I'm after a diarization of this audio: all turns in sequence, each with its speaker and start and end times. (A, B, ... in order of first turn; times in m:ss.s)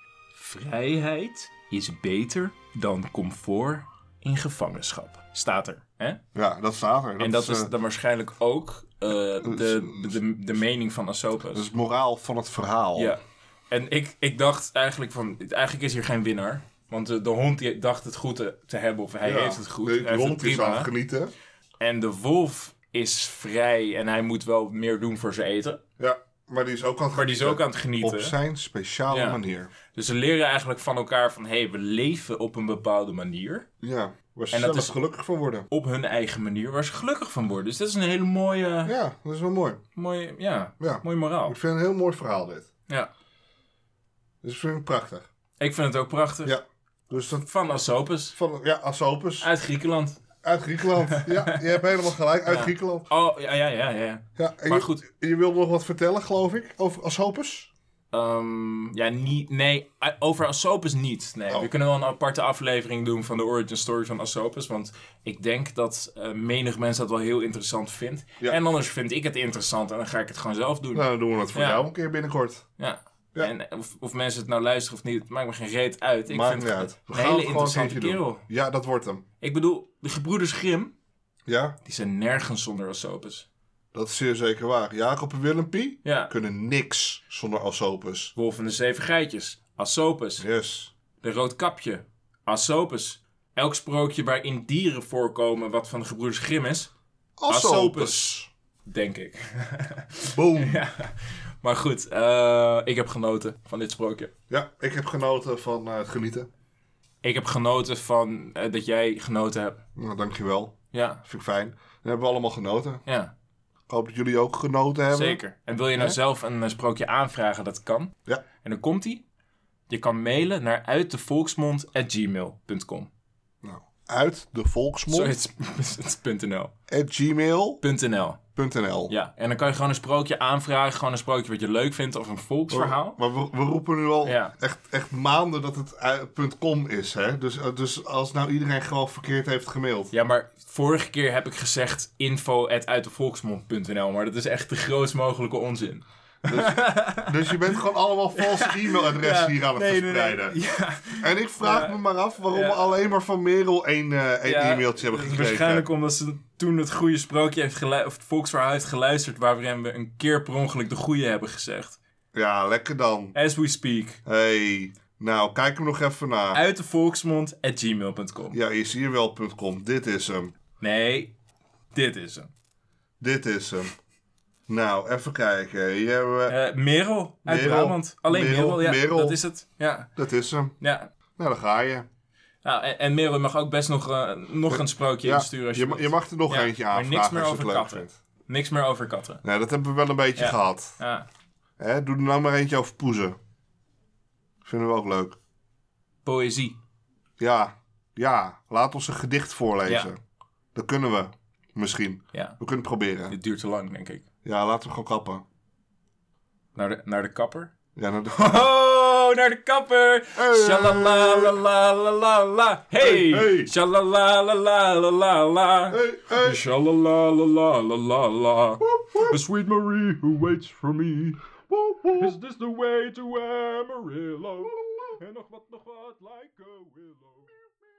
0:00.4-0:06.2 A
0:06.4-0:07.7 B
0:07.2-0:11.7 A
0:09.4-0:10.4 B
0:11.5-0:13.2 B
0:13.7-0:20.9 A
0:19.2-0:21.3 B
0:21.8-0:25.8 A
0:26.0-0:29.7 B
0:27.1-0:28.4 A
0:29.1-0:29.4 A
0:29.9-0:33.7 A
0:33.8-0:35.7 B
0:34.5-0:35.0 A
0:35.7-0:38.9 A
0:38.8-0:39.8 B
0:40.0-0:41.6 A
0:40.8-0:42.7 B
0:44.4-0:45.3 B
0:45.6-0:46.5 A
0:46.4-0:47.5 B
0:47.5-0:48.4 A
0:48.3-0:49.5 B
0:49.4-0:50.2 A
0:50.4-0:53.1 B
0:51.0-0:51.9 A
0:52.5-0:55.0 A
0:54.4-0:57.7 B
0:58.1-1:11.9 A
1:10.9-1:12.6 B
1:12.8-1:18.4 A
1:16.3-1:19.2 B
1:19.4-1:20.9 A
1:21.5-1:21.8 B
1:21.8-1:23.5 A
1:23.9-1:28.3 B
1:26.0-1:26.3 A
1:28.4-1:30.4 A
1:30.4-1:30.9 B
1:31.2-1:36.9 A
1:37.4-1:38.5 B
1:37.5-1:44.3 A
1:40.3-1:40.8 B
1:44.5-1:46.5 B
1:47.2-1:49.8 A
1:50.0-1:53.0 B
1:50.9-1:51.2 A
1:53.1-1:53.3 A
1:53.9-1:55.4 B
1:55.1-1:59.2 A
1:59.9-2:03.1 A
2:03.6-2:05.4 B
2:05.1-2:06.7 A
2:06.9-2:07.8 B
2:07.8-2:08.4 A
2:08.6-2:09.1 B
2:09.1-2:13.2 A
2:12.7-2:20.1 B
2:14.2-2:14.5 A
2:20.1-2:33.0 A
2:26.5-2:30.6 B
2:31.2-2:35.9 B
2:34.4-2:42.0 A
2:42.3-2:43.4 B
2:43.3-2:44.2 A
2:44.2-2:46.6 B
2:46.5-2:48.6 A
2:48.5-2:50.5 B
2:50.8-2:51.3 A
2:51.9-2:52.5 A
2:53.2-2:54.0 B
2:54.7-2:56.6 B
2:56.5-3:00.1 A
2:57.4-2:59.4 B
3:00.2-3:00.8 B
3:00.8-3:01.1 A
3:01.4-3:02.1 B
3:02.6-3:09.4 A
3:04.7-3:08.2 B
3:09.4-3:11.0 B
3:10.4-3:11.3 A
3:11.8-3:13.4 B
3:14.6-3:15.4 B
3:16.2-3:16.8 A
3:17.4-3:20.2 B
3:19.8-3:20.1 A
3:20.8-3:23.4 B
3:23.3-3:24.2 A
3:24.4-3:25.4 B
3:26.8-3:27.7 A
3:28.0-3:28.7 B
3:28.3-3:41.4 A
3:30.4-3:31.6 B
3:33.0-3:33.7 B
3:35.9-3:36.6 B
3:38.8-3:39.3 B
3:41.7-3:42.3 B
3:42.2-3:47.5 A